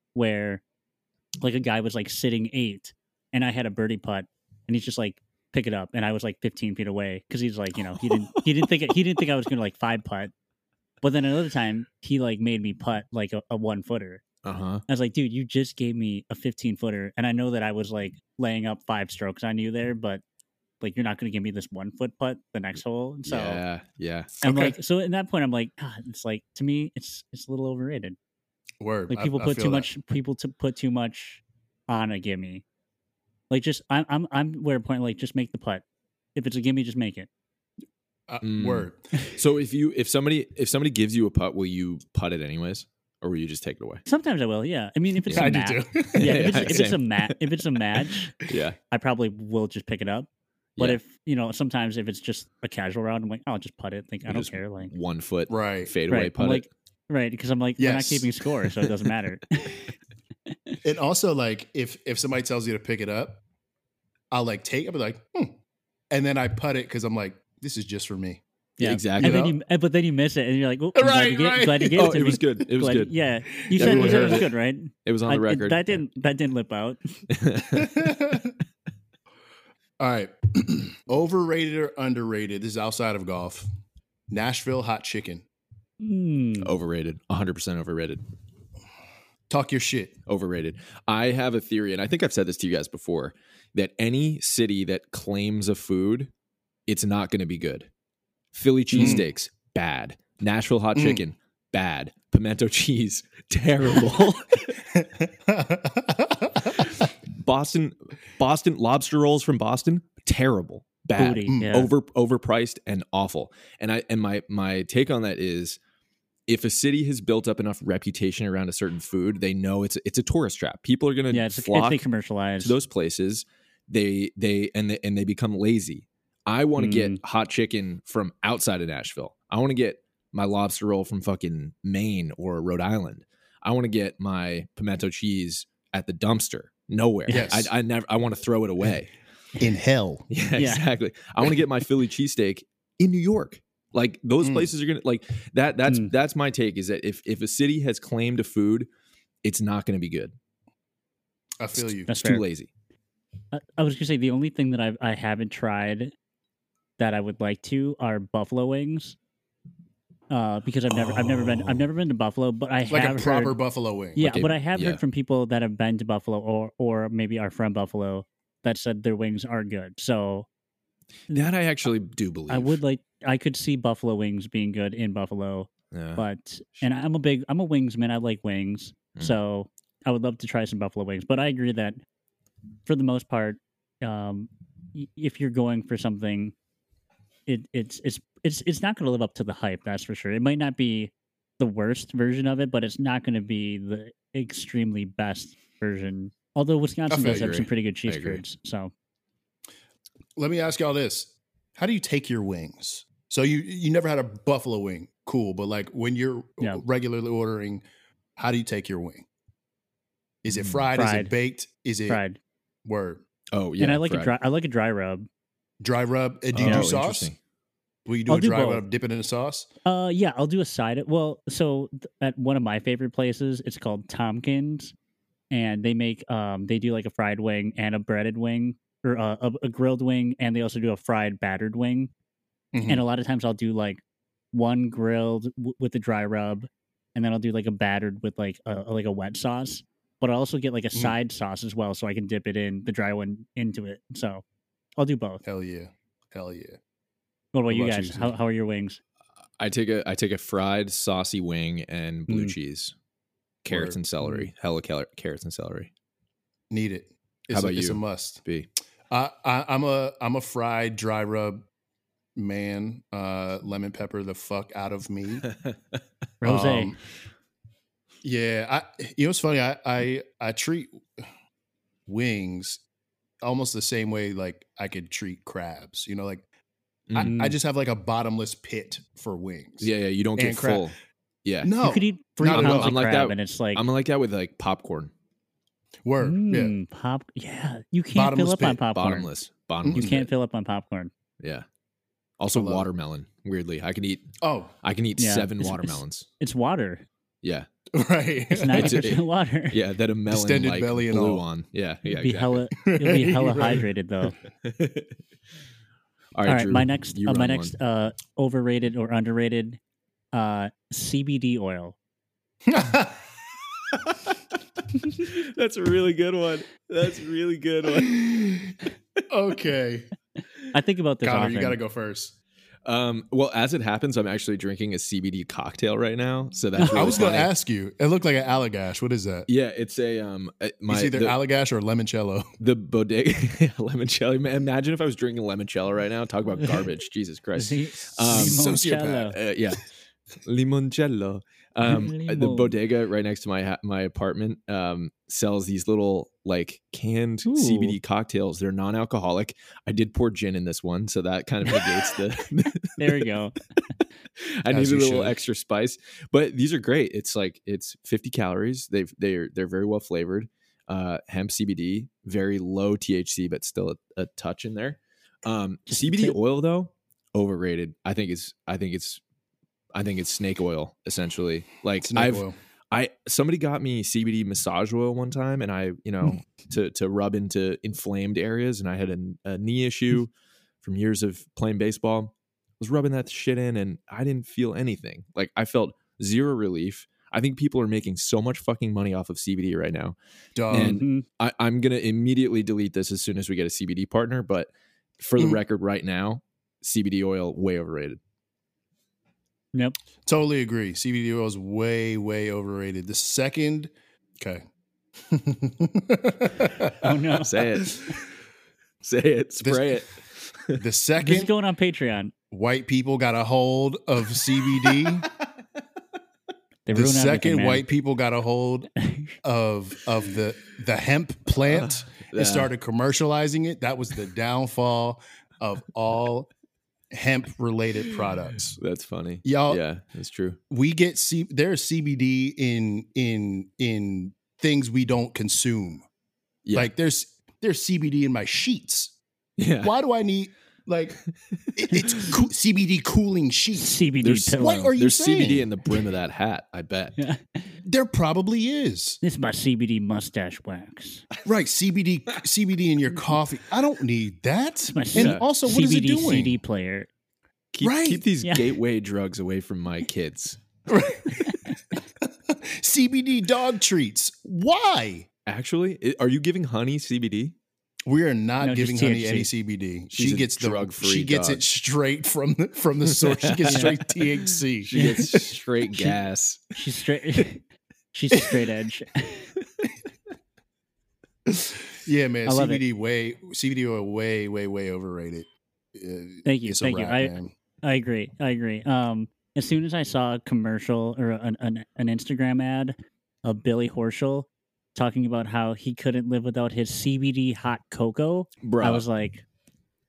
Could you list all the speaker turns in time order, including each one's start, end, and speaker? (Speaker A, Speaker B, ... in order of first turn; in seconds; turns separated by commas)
Speaker A: 0.1-0.6, Speaker A: 1.4-10.3, Speaker B: 8.0-8.7, Speaker A: 11.0-14.2, Speaker B: 14.4-14.8, Speaker A: 14.9-20.2, Speaker A: 20.8-23.6, Speaker B: 23.3-24.4, Speaker A: 24.4-28.2, Speaker C: 24.4-24.8, Speaker C: 28.8-29.9, Speaker A: 29.1-32.6, Speaker A: 33.5-35.8, Speaker A: 36.4-37.3, Speaker C: 38.3-39.0, Speaker B: 38.4-44.0, Speaker A: 44.1-48.4, Speaker B: 45.2-45.6, Speaker C: 45.3-46.9, Speaker B: 46.2-48.8, Speaker A: 48.9-54.9, Speaker B: 54.3-56.7, Speaker C: 55.5-55.9, Speaker A: 56.1-59.9, Speaker C: 57.8-58.3, Speaker C: 60.8-63.4, Speaker C: 64.3-65.6, Speaker C: 66.1-68.4, Speaker A: 68.8-77.0, Speaker B: 68.8-69.4, Speaker C: 69.2-69.6, Speaker C: 71.0-72.1, Speaker B: 71.9-73.1, Speaker C: 73.5-74.5, Speaker B: 73.7-74.5, Speaker B: 75.0-76.0, Speaker B: 77.3-78.1, Speaker C: 77.7-78.5, Speaker C: 80.0-83.7, Speaker C: 84.3-85.4, Speaker A: 86.0-86.7, Speaker B: 86.6-88.2, Speaker C: 89.5-90.2, Speaker B: 90.3-96.3, Speaker B: 96.9-97.9, Speaker B: 98.5-104.9, Speaker C: 98.9-99.3, Speaker C: 101.0-101.2, Speaker C: 105.0-106.9, Speaker B: 106.8-115.8, Speaker A: 111.2-111.9, Speaker B: 116.5-122.0, Speaker A: 121.3-122.8, Speaker B: 122.6-139.1, Speaker A: 126.8-127.2, Speaker A: 137.3-137.6, Speaker C: 137.3-137.7, Speaker C: 139.6-140.3, Speaker B: 140.3-148.9, Speaker A: 140.6-140.8, Speaker C: 144.4-144.7, Speaker A: 145.9-146.1, Speaker B: 149.4-150.3, Speaker C: 151.6-152.1, Speaker B: 151.8-152.7, Speaker A: 152.1-152.4, Speaker A: 153.5-156.1, Speaker A: 157.0-159.2, Speaker A: 160.3-163.6, Speaker C: 162.9-164.2, Speaker A: 164.2-170.5, Speaker B: 164.2-165.0, Speaker B: 171.3-172.8, Speaker A: 172.5-182.0, Speaker B: 175.9-176.2, Speaker A: 182.9-186.5, Speaker A: 187.5-198.9, Speaker C: 197.1-197.6, Speaker B: 197.2-198.4, Speaker C: 200.4-207.8, Speaker C: 208.4-209.2, Speaker C: 210.4-212.2, Speaker B: 210.5-210.8, Speaker A: 210.9-211.3, Speaker A: 212.1-212.4, Speaker C: 212.8-213.2, Speaker B: 213.5-214.3, Speaker A: 213.8-215.3, Speaker C: 215.8-217.3, Speaker B: 216.5-217.4, Speaker A: 216.6-216.9, Speaker C: 218.1-219.7, Speaker A: 218.3-218.8, Speaker A: 219.8-224.9, Speaker A: 225.5-232.1, Speaker C: 232.7-233.0, Speaker A: 232.9-234.0, Speaker A: 234.5-244.4, Speaker A: 245.0-245.4, Speaker C: 245.4-246.8, Speaker A: 247.5-249.0, Speaker C: 247.7-248.3, Speaker B: 249.6-252.9, Speaker A: 252.3-252.6, Speaker B: 253.7-255.9, Speaker C: 253.7-254.0, Speaker C: 256.7-258.4, Speaker B: 257.5-258.7, Speaker C: 259.1-261.6, Speaker C: 262.4-265.5, Speaker B: 265.5-266.0, Speaker A: 266.4-266.9, Speaker C: 266.4-267.0, Speaker C: 268.2-271.0, Speaker C: 272.1-272.8, Speaker C: 273.4-276.4, Speaker C: 277.1-280.9, Speaker A: 277.2-277.6, Speaker B: 279.8-280.9, Speaker B: 281.4-281.7, Speaker C: 281.6-282.9, Speaker A: 281.8-283.8, Speaker B: 282.5-285.1, Speaker C: 286.1-286.8, Speaker A: 286.2-289.3, Speaker C: 288.1-288.8, Speaker B: 288.9-290.3, Speaker C: 289.8-290.1, Speaker A: 289.9-291.1, Speaker B: 291.4-291.7, Speaker B: 292.4-294.3, Speaker C: 292.5-292.9, Speaker C: 294.4-294.7, Speaker B: 294.8-296.3, Speaker A: 295.2-297.1, Speaker B: 297.4-297.7, Speaker C: 297.9-299.0, Speaker A: 298.5-299.8, Speaker B: 298.7-302.6, Speaker C: 300.3-301.4, Speaker A: 302.1-304.4, Speaker C: 302.8-303.9, Speaker B: 304.6-305.1, Speaker B: 306.4-307.7, Speaker A: 306.5-309.8, Speaker A: 310.3-311.9, Speaker C: 312.7-313.2, Speaker B: 315.2-318.5, Speaker C: 319.3-320.1, Speaker A: 320.7-321.8, Speaker C: 321.2-322.4, Speaker B: 322.9-327.5, Speaker A: 326.8-327.2, Speaker C: 326.8-329.5, Speaker B: 329.5-331.4, Speaker C: 330.9-332.5, Speaker B: 332.6-339.9, Speaker A: 337.6-339.4, Speaker C: 338.3-339.3, Speaker B: 340.4-353.3, Speaker A: 341.9-342.8, Speaker A: 347.4-348.0, Speaker A: 353.0-353.6, Speaker B: 354.4-369.2, Speaker C: 354.7-355.4, Speaker A: 365.9-366.4, Speaker B: 369.9-380.3, Speaker C: 372.0-372.6, Speaker B: 380.8-390.2, Speaker C: 390.6-391.0, Speaker B: 390.7-398.2, Speaker A: 390.7-391.2, Speaker C: 400.3-404.6, Speaker C: 405.3-407.0, Speaker A: 407.0-408.1, Speaker B: 407.4-408.2, Speaker B: 409.0-410.8, Speaker C: 409.6-410.0, Speaker C: 410.8-411.5, Speaker A: 411.2-412.3, Speaker C: 412.5-415.3, Speaker A: 416.9-417.9, Speaker C: 416.9-418.9, Speaker A: 419.0-419.3, Speaker C: 419.4-426.5, Speaker B: 421.6-422.7, Speaker C: 427.1-428.8, Speaker B: 428.7-430.6, Speaker C: 429.4-429.8, Speaker C: 430.7-436.1, Speaker B: 436.6-436.9, Speaker C: 436.7-439.1, Speaker B: 439.6-439.9, Speaker C: 439.8-441.2, Speaker C: 441.7-444.0, Speaker A: 443.8-444.9, Speaker B: 444.2-447.2, Speaker C: 444.5-445.7, Speaker A: 447.2-447.7, Speaker C: 447.8-449.2, Speaker A: 449.2-451.2, Speaker C: 451.4-456.6, Speaker A: 454.9-457.1, Speaker B: 455.1-455.4, Speaker B: 457.7-460.6, Speaker C: 457.8-458.2, Speaker A: 458.4-458.8, Speaker C: 460.9-461.6, Speaker C: 462.5-465.3, Speaker B: 465.5-467.6, Speaker C: 468.1-474.9, Speaker A: 468.6-469.5, Speaker B: 470.1-471.6, Speaker B: 473.1-476.8, Speaker A: 473.7-474.0, Speaker A: 474.9-476.2, Speaker A: 476.8-477.6, Speaker A: 478.1-479.5, Speaker C: 481.5-487.5, Speaker A: 482.5-482.8, Speaker A: 486.5-499.4, Speaker B: 498.6-499.1